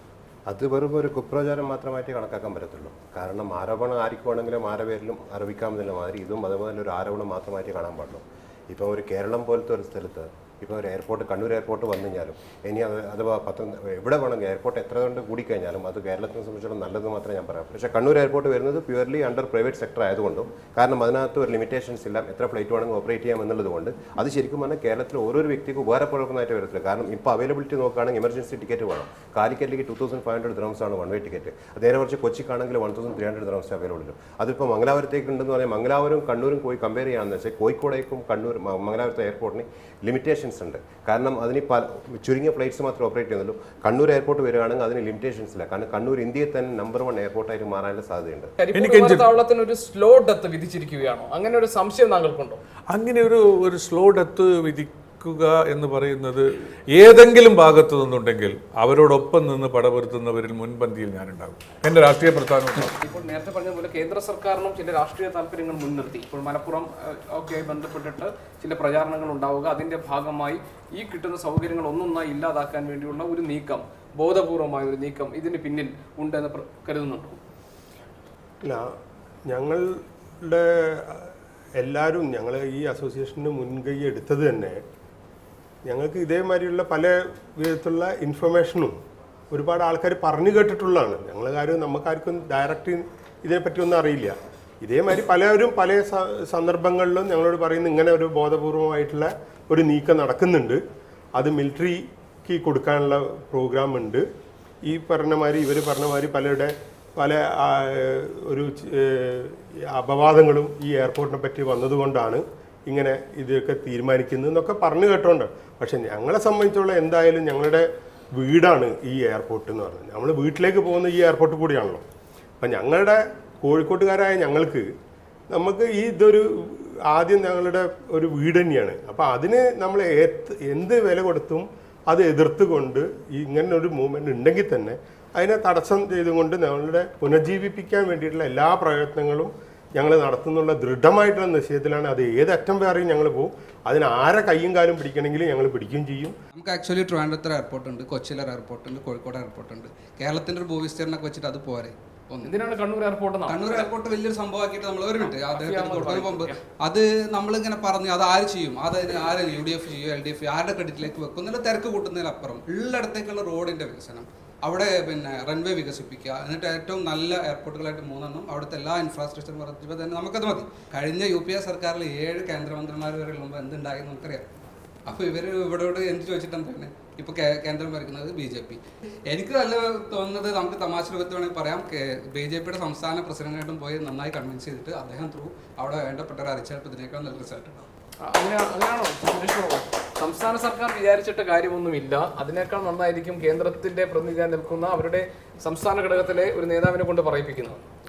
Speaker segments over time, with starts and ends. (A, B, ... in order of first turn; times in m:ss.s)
0:00.5-0:48.5 A
0:48.6-0:52.6 B
0:48.7-0:49.3 C
0:52.9-1:03.0 C
1:03.0-1:17.4 B
1:18.6-1:18.9 D
1:19.5-1:24.8 D
1:25.9-1:29.0 D
1:29.5-1:40.8 D
1:41.4-1:44.3 D
1:44.8-2:02.0 D
2:02.6-2:04.9 D
2:05.5-2:26.4 D
2:26.5-2:32.5 E
2:32.4-2:33.9 B
2:33.5-2:54.5 E
2:35.2-2:36.6 B
2:55.1-3:07.9 E
3:08.2-3:17.8 B